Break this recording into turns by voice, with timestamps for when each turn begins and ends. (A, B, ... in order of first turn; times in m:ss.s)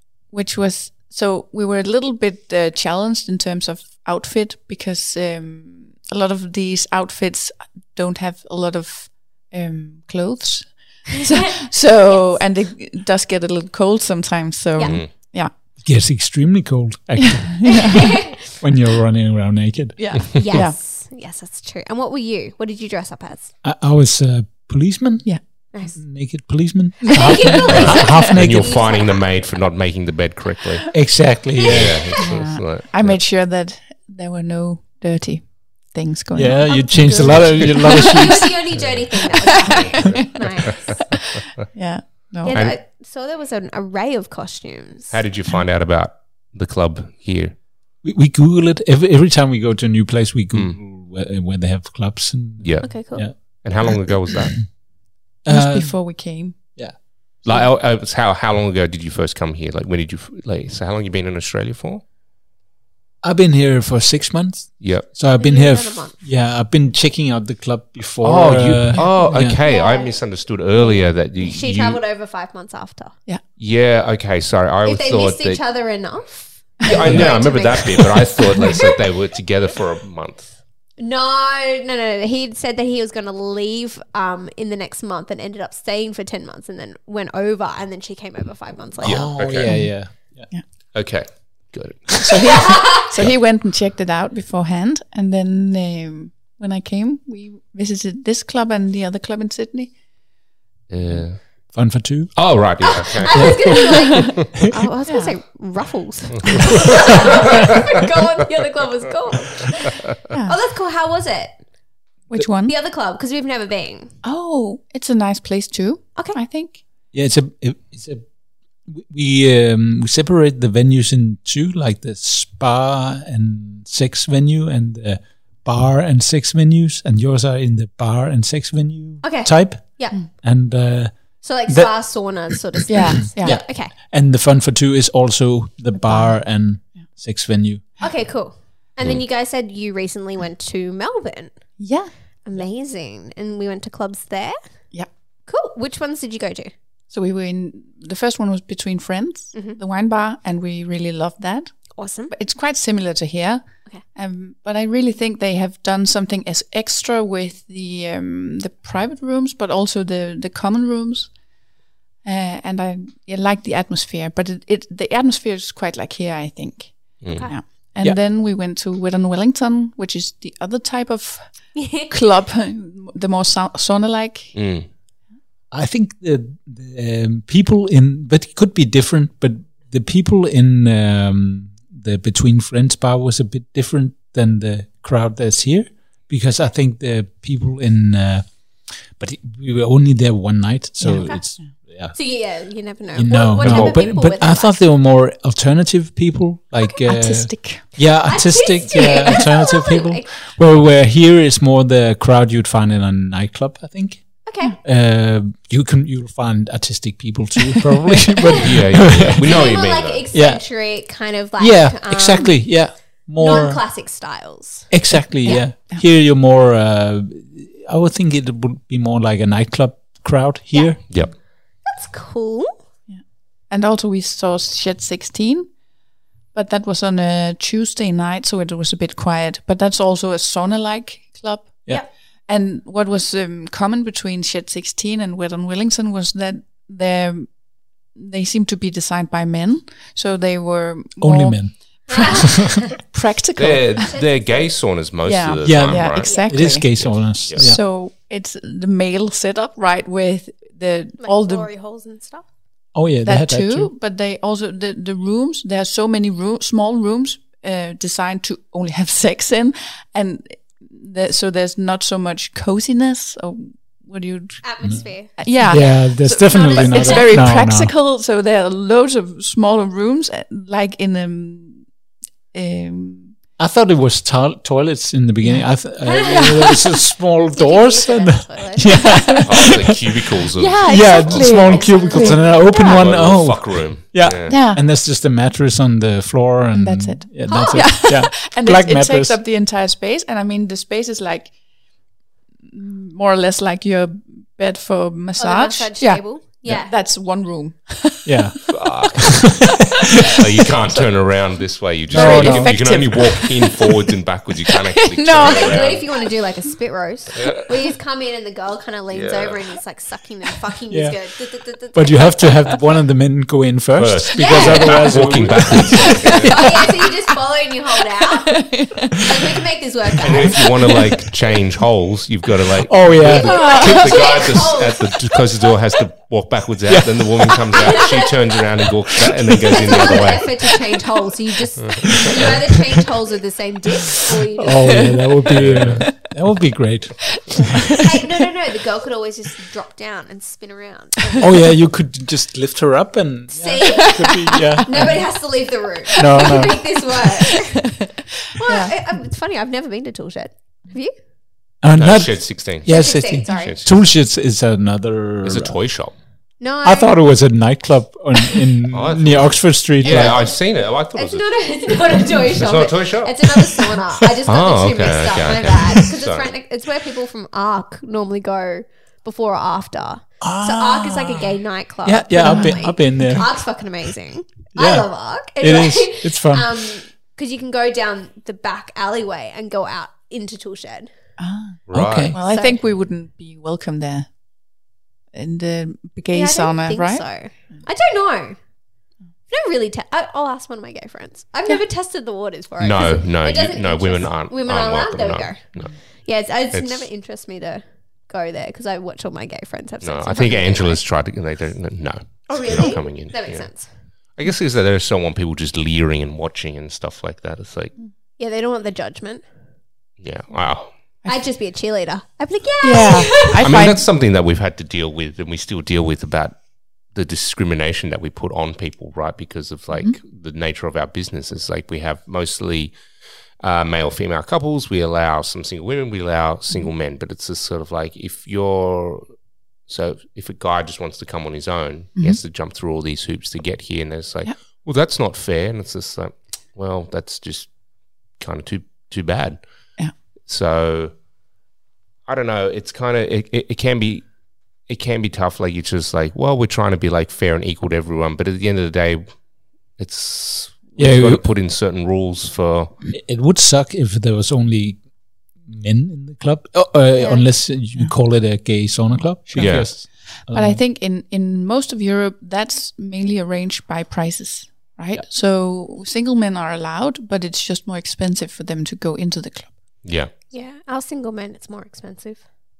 0:00.3-0:15.5 A
0:12.1-0:12.4 B
0:14.8-0:15.0 B
0:14.8-0:15.1 C
0:15.8-0:20.3 D
0:17.3-0:18.2 A
0:17.7-0:18.4 B
0:20.0-0:20.8 A
0:20.3-0:23.5 B
0:23.6-0:28.8 D
0:25.7-0:26.0 B
0:27.0-0:27.9 A
0:27.1-0:29.2 B
0:27.7-0:30.9 C
0:30.9-0:32.2 D
0:31.6-0:32.2 B
0:31.6-0:33.2 C
0:32.2-0:38.3 A
0:36.4-0:38.6 D
0:36.7-0:41.0 B
0:39.3-0:40.2 A
0:39.6-0:41.0 C
0:41.2-0:42.6 A
0:42.4-0:45.2 B
0:42.5-0:42.8 C
0:45.1-0:47.5 C
0:48.0-0:54.1 D
0:50.5-0:50.8 C
0:52.6-0:54.6 C
0:52.8-0:53.3 B
0:55.5-0:56.0 D
0:55.5-0:56.7 A
0:57.4-1:02.0 C
1:03.2-1:09.6 D
1:04.8-1:05.1 C
1:05.4-1:06.2 B
1:08.2-1:12.0 C
1:09.0-1:09.3 A
1:09.2-1:13.1 B
1:13.6-1:15.6 C
1:14.8-1:19.0 B
1:16.8-1:20.6 C
1:21.0-1:29.3 B
1:29.0-1:29.8 C
1:29.0-1:30.5 D
1:29.6-1:29.9 A
1:30.9-1:32.6 C
1:32.1-1:39.9 A
1:32.5-1:33.1 B
1:40.9-1:41.4 C
1:41.7-1:42.5 D
1:42.4-1:43.9 C
1:42.8-1:51.6 B
1:43.8-1:44.2 A
1:45.1-1:45.3 A
1:46.5-1:46.8 C
1:50.3-1:50.6 A
1:52.3-1:52.7 A
1:52.7-1:54.1 B
1:54.2-1:56.8 A
1:57.1-1:58.3 D
1:58.9-2:12.6 D
2:09.2-2:10.2 B
2:11.4-2:13.9 B
2:12.9-2:13.6 A
2:13.4-2:17.8 D
2:16.0-2:17.0 A
2:18.0-2:21.5 B
2:21.8-2:22.1 A
2:22.4-2:24.6 B
2:25.5-2:26.7 B
2:27.1-2:31.8 A
2:29.5-2:29.8 B
2:32.0-2:32.3 B
2:32.3-2:41.3 A
2:42.2-2:54.6 A
2:47.2-2:47.5 C
2:47.3-2:47.6 B
2:51.8-2:52.1 B
2:54.6-2:54.9 C
2:55.7-3:12.2 D
3:11.0-3:11.7 A
3:12.1-3:14.8 B
3:13.2-3:29.5 D
3:13.6-3:14.1 C
3:17.0-3:18.0 A
3:18.3-3:20.3 B
3:19.0-3:19.4 A
3:24.5-3:24.8 B
3:28.5-3:30.2 C
3:29.4-3:32.7 B
3:30.3-3:30.6 D
3:31.6-3:33.8 D
3:33.4-3:35.7 B
3:34.9-3:41.0 D
3:35.5-3:36.0 A
3:40.7-3:41.3 B
3:41.8-3:42.8 B
3:43.1-3:45.7 A
3:46.5-3:57.6 A
3:58.1-4:04.1 A
4:01.2-4:02.8 D
4:02.1-4:02.9 B
4:03.6-4:07.7 C
4:04.1-4:04.7 B
4:05.2-4:11.7 A
4:05.6-4:07.8 D
4:06.2-4:06.5 B
4:11.2-4:12.5 B
4:13.0-4:13.9 D
4:13.2-4:31.9 A
4:24.6-4:25.8 B
4:25.6-4:27.9 D
4:26.5-4:27.3 B
4:32.5-4:33.4 A
4:33.6-4:40.1 D
4:35.4-4:36.9 A
4:36.0-4:37.0 B
4:37.5-4:39.4 B
4:38.9-4:39.5 A
4:39.4-4:42.0 C
4:40.6-4:42.5 A
4:40.9-4:49.4 D
4:41.7-4:43.0 B
4:42.6-4:44.6 C
4:44.5-4:44.8 A
4:46.7-4:51.5 A
4:47.4-4:47.9 B
4:52.7-4:58.6 A
4:55.4-4:56.9 B
4:58.3-4:59.5 D
4:58.7-5:06.1 C
5:02.1-5:03.0 D
5:02.1-5:04.1 A
5:04.6-5:06.1 A
5:05.4-5:12.6 B
5:07.4-5:07.6 C
5:09.1-5:09.6 C
5:10.9-5:11.2 D
5:11.9-5:16.7 D
5:14.0-5:16.7 C
5:14.4-5:15.1 B
5:15.9-5:16.9 A
5:16.3-5:20.8 B
5:18.3-5:19.3 A
5:20.2-5:30.8 C
5:22.9-5:23.6 D
5:23.4-5:25.2 B
5:23.4-5:24.3 A
5:26.9-5:27.8 D
5:27.7-5:28.4 B
5:29.2-5:29.7 D
5:29.6-5:35.1 B
5:31.8-5:32.6 C
5:32.2-5:32.6 D
5:34.3-5:38.0 D
5:34.9-5:35.2 A
5:35.5-5:36.1 C
5:37.5-5:38.0 A
5:38.0-5:41.6 B
5:41.4-5:45.3 D
5:43.5-5:48.0 B
5:44.2-5:45.2 A
5:46.2-5:46.8 D
5:46.2-5:49.0 A
5:48.6-5:51.1 B
5:51.8-5:55.8 D
5:52.0-5:54.0 C
5:52.8-5:53.8 B
5:55.4-5:56.2 C
5:56.6-5:57.2 B
5:56.8-6:00.4 D
5:58.9-6:03.8 C
6:00.0-6:00.6 B
6:01.1-6:21.1 B
6:04.5-6:06.5 C
6:10.4-6:13.5 D
6:12.4-6:12.8 A
6:14.8-6:16.7 D
6:21.4-6:24.3 A
6:21.9-6:22.4 C
6:21.9-6:22.4 D
6:22.4-6:22.8 B
6:25.3-6:27.3 A
6:26.3-6:28.6 B
6:29.5-6:35.7 B
6:32.8-6:35.9 C
6:36.2-6:41.0 B
6:36.7-6:37.1 C
6:40.0-6:43.7 C
6:42.5-6:43.9 B
6:44.4-6:47.9 C
6:48.4-6:49.4 B
6:50.2-6:50.9 C
6:51.3-6:53.6 B
6:52.8-6:54.0 A
6:53.6-6:56.6 C
6:57.1-7:03.0 C
7:03.6-7:09.3 C
7:09.9-7:17.7 C
7:18.4-7:19.6 C
7:20.5-7:21.1 C
7:22.3-7:24.3 C
7:24.9-7:29.4 C
7:30.0-7:33.0 C
7:31.0-7:31.4 D
7:33.1-7:35.0 D
7:35.6-7:40.8 D
7:37.2-7:37.4 B
7:39.6-7:39.9 C
7:40.5-7:49.7 A
7:50.0-7:50.3 C
7:50.5-7:52.4 B